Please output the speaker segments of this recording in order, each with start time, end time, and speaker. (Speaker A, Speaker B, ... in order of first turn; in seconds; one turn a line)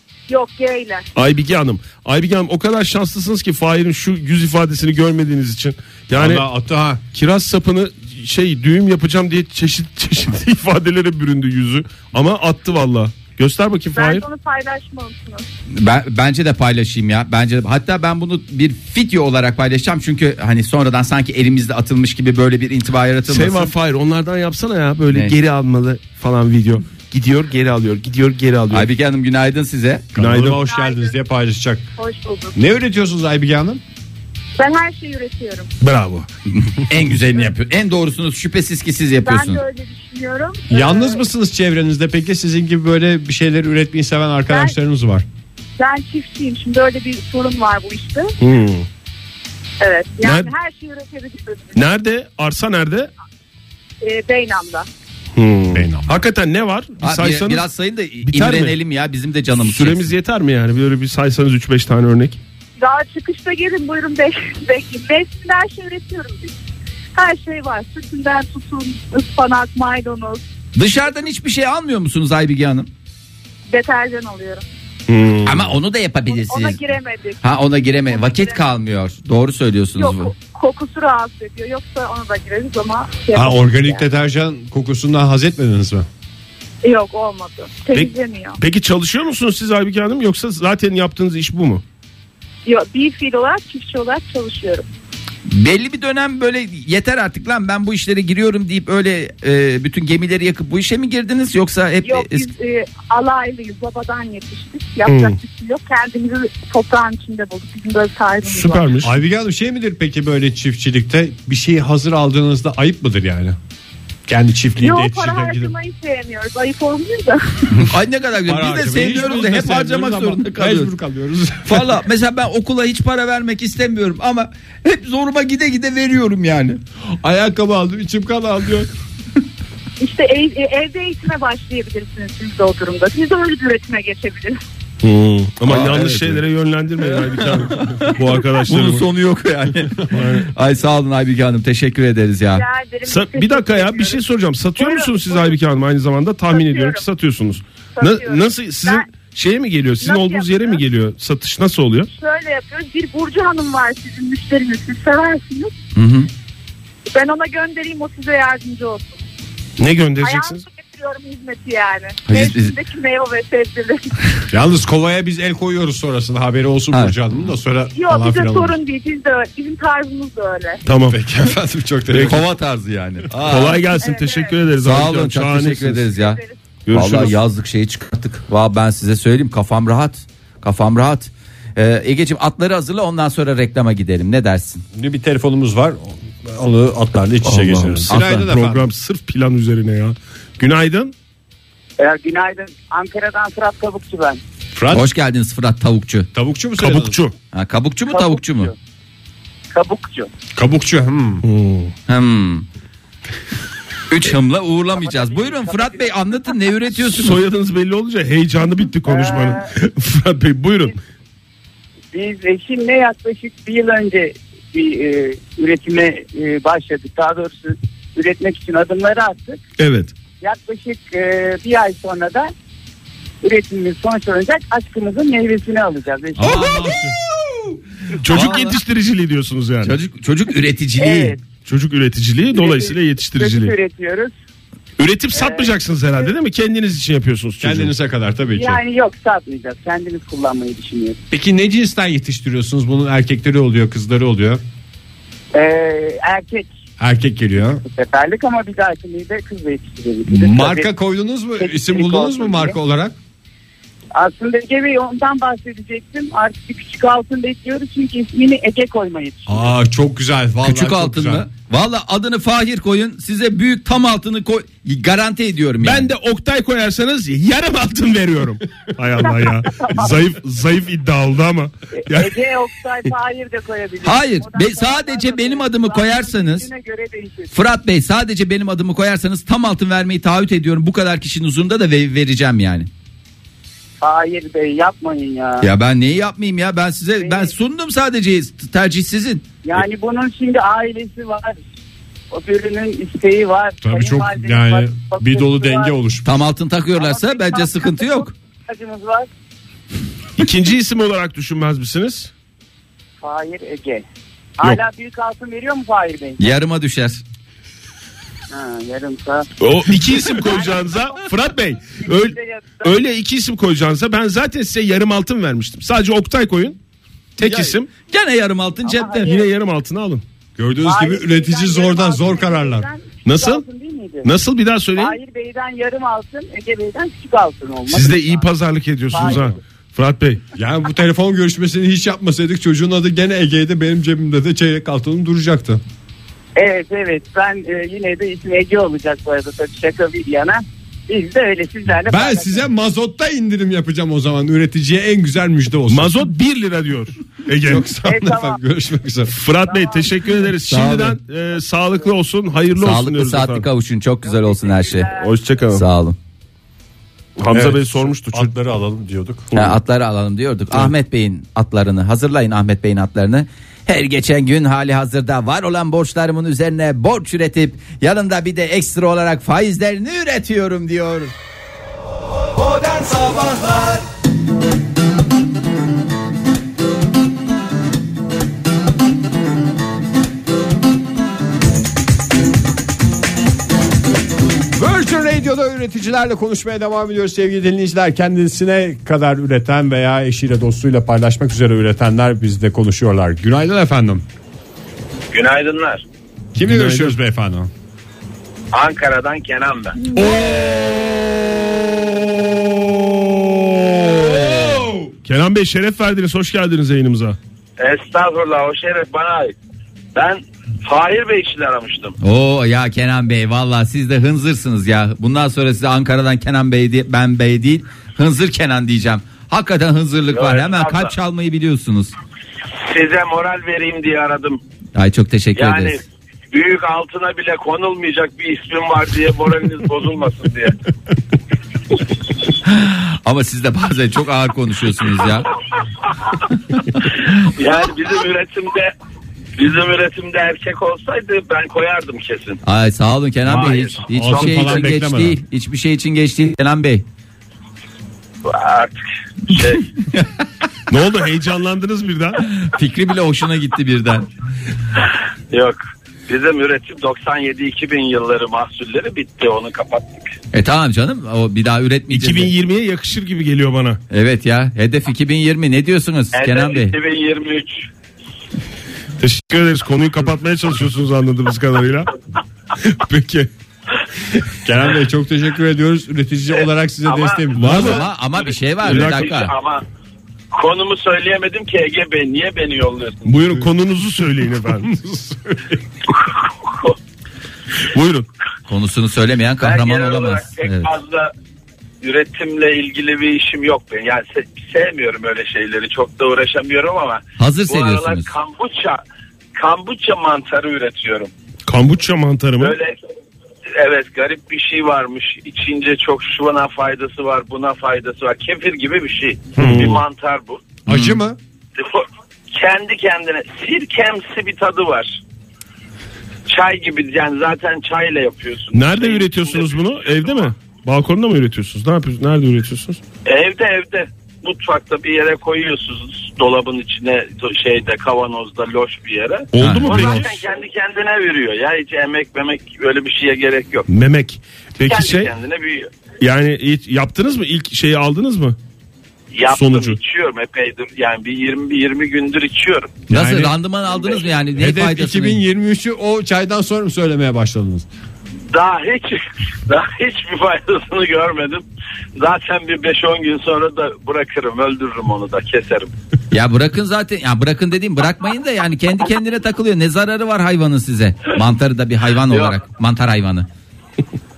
Speaker A: 0.3-1.1
Speaker B: 1.1-6.5
Speaker C: 6.1-7.0
Speaker B: 7.1-14.3
Speaker A: 13.9-15.5
Speaker D: 15.7-23.7
Speaker B: 23.3-28.9
Speaker D: 28.7-30.1
Speaker C: 30.1-31.9
Speaker B: 30.2-30.6
Speaker A: 30.7-31.1
Speaker A: 32.0-32.6
Speaker C: 32.5-33.8
Speaker A: 34.6-35.7
Speaker B: 35.8-36.3
Speaker D: 36.5-39.6
Speaker A: 39.2-41.2
Speaker C: 40.7-45.3
Speaker A: 44.5-44.8
Speaker A: 45.8-48.3
Speaker B: 48.4-48.9
Speaker A: 49.8-51.8
Speaker B: 50.2-50.5
Speaker B: 51.8-53.1
Speaker A: 54.0-54.9
Speaker B: 55.4-57.6
Speaker C: 55.7-56.2
Speaker D: 57.0-60.1
Speaker B: 58.2-58.8
Speaker B: 59.6-62.4
Speaker A: 62.8-66.5
Speaker A: 67.2-70.4
Speaker D: 70.8-72.9
Speaker A: 73.7-74.7
Speaker B: 75.1-75.7
Speaker D: 75.5-76.8
Speaker A: 76.3-77.5
Speaker D: 77.4-80.3
Speaker A: 78.1-78.6
Speaker A: 80.0-84.0
Speaker C: 83.3-86.1
Speaker A: 86.8-88.6
Speaker B: 87.9-91.8
Speaker A: 92.7-94.9
Speaker D: 95.5-102.5
Speaker A: 102.0-108.9
Speaker B: 105.1-105.4
Speaker B: 108.5-109.1
Speaker C: 109.0-113.6
Speaker C: 114.3-115.7
Speaker A: 114.8-117.7
Speaker D: 117.8-120.9
Speaker C: 118.5-121.9
Speaker D: 121.7-126.8
Speaker C: 127.2-128.9
Speaker A: 130.0-134.6
Speaker B: 135.0-139.1
Speaker D: 135.7-136.4
Speaker D: 137.2-142.7
Speaker B: 140.1-140.5
Speaker A: 142.5-144.2
Speaker B: 143.1-152.1
Speaker A: 144.8-145.6
Speaker A: 146.5-147.0
Speaker A: 148.0-149.1
Speaker A: 150.0-150.8
Speaker A: 152.1-155.7
Speaker D: 155.9-156.3
Speaker A: 157.1-159.2
Speaker B: 159.8-160.6
Speaker A: 160.2-164.1
Speaker D: 162.3-162.7
Speaker C: 164.5-168.8
Speaker A: 167.9-170.8
Speaker B: 170.9-171.2
Speaker C: 171.1-172.4
Speaker B: 172.1-172.4
Speaker D: 172.2-173.9
Speaker B: 173.3-176.1
Speaker A: 174.0-174.5
Speaker D: 174.8-176.4
Speaker A: 176.2-176.6
Speaker B: 176.9-177.4
Speaker D: 176.9-184.8
Speaker C: 184.9-188.9
Speaker B: 187.4-191.1
Speaker D: 188.1-188.5
Speaker E: 192.0-194.4
Speaker C: 194.8-195.1
Speaker D: 194.9-196.3
Speaker C: 196.3-197.2
Speaker B: 196.8-197.3
Speaker D: 197.5-198.7
Speaker E: 198.1-198.7
Speaker E: 199.7-200.3
Speaker C: 200.6-201.4
Speaker B: 201.4-201.9
Speaker D: 202.1-202.7
Speaker D: 204.1-207.4
Speaker E: 204.9-206.1
Speaker B: 206.9-210.9
Speaker E: 209.1-209.6
Speaker E: 212.1-219.6
Speaker B: 219.8-220.1
Speaker E: 220.4-222.5
Speaker E: 223.4-226.9
Speaker B: 226.4-227.1
Speaker D: 226.4-227.8
Speaker B: 228.2-229.9
Speaker D: 228.3-228.8
Speaker D: 229.8-231.3
Speaker E: 231.0-231.4
Speaker B: 231.7-233.7
Speaker E: 232.5-234.3
Speaker B: 235.0-237.9
Speaker E: 235.3-235.7
Speaker C: 237.6-238.8
Speaker E: 238.5-241.2
Speaker C: 241.3-244.6
Speaker E: 245.5-246.7
Speaker C: 247.0-247.8
Speaker E: 247.8-250.9
Speaker C: 250.3-253.2
Speaker E: 251.6-252.8
Speaker E: 254.1-259.7
Speaker C: 259.5-261.5
Speaker D: 260.6-266.1
Speaker B: 265.8-272.4
Speaker E: 269.2-270.2
Speaker E: 272.0-277.5
Speaker D: 274.0-276.7
Speaker D: 277.5-282.9
Speaker E: 284.0-285.7
Speaker D: 285.6-289.4
Speaker E: 287.2-287.5
Speaker E: 289.6-291.6
Speaker E: 292.3-295.9
Speaker C: 293.8-296.3
Speaker D: 296.2-298.3
Speaker E: 297.0-299.3
Speaker B: 300.4-302.3
Speaker E: 303.2-304.1
Speaker E: 304.6-306.4
Speaker D: 306.4-307.2
Speaker E: 308.5-309.5
Speaker B: 309.6-316.8
Speaker E: 310.3-311.2
Speaker E: 312.1-312.9
Speaker B: 317.4-317.9
Speaker D: 317.4-319.4
Speaker E: 318.8-319.4
Speaker B: 319.2-320.2
Speaker C: 320.6-322.9
Speaker E: 320.8-324.3
Speaker B: 323.2-323.6
Speaker B: 324.2-325.2
Speaker E: 325.0-328.5
Speaker B: 327.9-330.4
Speaker E: 329.1-329.6
Speaker C: 330.6-335.8
Speaker E: 336.6-342.6
Speaker C: 342.1-346.2
Speaker B: 345.9-347.9
Speaker C: 347.6-349.4
Speaker E: 348.0-348.6
Speaker B: 349.3-353.7
Speaker E: 349.7-350.3
Speaker D: 350.7-351.2
Speaker D: 352.8-355.1
Speaker E: 354.3-355.1
Speaker B: 355.1-355.9
Speaker D: 355.7-356.2
Speaker B: 357.4-358.5
Speaker C: 357.5-359.5
Speaker D: 359.6-371.3
Speaker D: 372.8-374.0
Speaker C: 384.7-394.2
Speaker F: 395.3-396.0
Speaker C: 396.5-397.7
Speaker B: 396.6-397.2
Speaker F: 398.7-400.0
Speaker C: 402.5-403.0
Speaker B: 405.2-407.4
Speaker F: 407.8-409.6
Speaker F: 410.1-412.2
Speaker D: 412.2-422.1
Speaker F: 420.3-421.1
Speaker F: 422.9-424.6
Speaker D: 424.9-426.0
Speaker F: 425.5-430.8
Speaker D: 432.6-435.5
Speaker F: 437.6-438.9
Speaker F: 439.6-442.6
Speaker D: 442.6-447.1
Speaker F: 443.4-444.9
Speaker C: 444.1-445.4
Speaker F: 448.4-449.9
Speaker B: 450.9-452.4
Speaker D: 452.4-454.3
Speaker F: 455.5-460.3
Speaker D: 460.5-462.5
Speaker B: 462.1-464.0
Speaker D: 464.1-467.0
Speaker F: 466.3-467.9
Speaker B: 469.2-472.1
Speaker B: 472.8-473.5
Speaker C: 474.6-478.0
Speaker F: 477.1-479.9
Speaker B: 477.6-478.1
Speaker D: 477.6-479.5
Speaker B: 478.8-479.4
Speaker F: 480.5-483.3
Speaker B: 483.2-484.9
Speaker C: 484.8-485.8
Speaker F: 486.4-486.9
Speaker B: 487.9-488.3
Speaker D: 488.7-490.9
Speaker F: 489.6-491.3
Speaker F: 492.0-499.0
Speaker D: 497.4-498.3
Speaker F: 499.6-501.3
Speaker B: 501.7-502.8
Speaker F: 502.6-503.0
Speaker F: 503.8-510.6
Speaker B: 509.6-510.0
Speaker C: 509.6-509.9
Speaker D: 510.9-511.2
Speaker C: 510.9-511.4
Speaker F: 511.8-515.2
Speaker F: 516.5-520.5
Speaker B: 518.7-523.0
Speaker F: 523.3-533.9
Speaker B: 529.5-530.4
Speaker D: 529.6-530.1
Speaker B: 533.9-535.4
Speaker F: 534.8-535.9
Speaker B: 536.2-538.6
Speaker F: 539.3-543.1
Speaker B: 539.5-540.0
Speaker D: 543.1-545.4
Speaker C: 543.1-543.5
Speaker F: 543.9-544.2
Speaker C: 544.6-547.9
Speaker F: 548.5-551.6
Speaker F: 552.2-555.9
Speaker D: 556.3-563.5
Speaker F: 562.2-562.7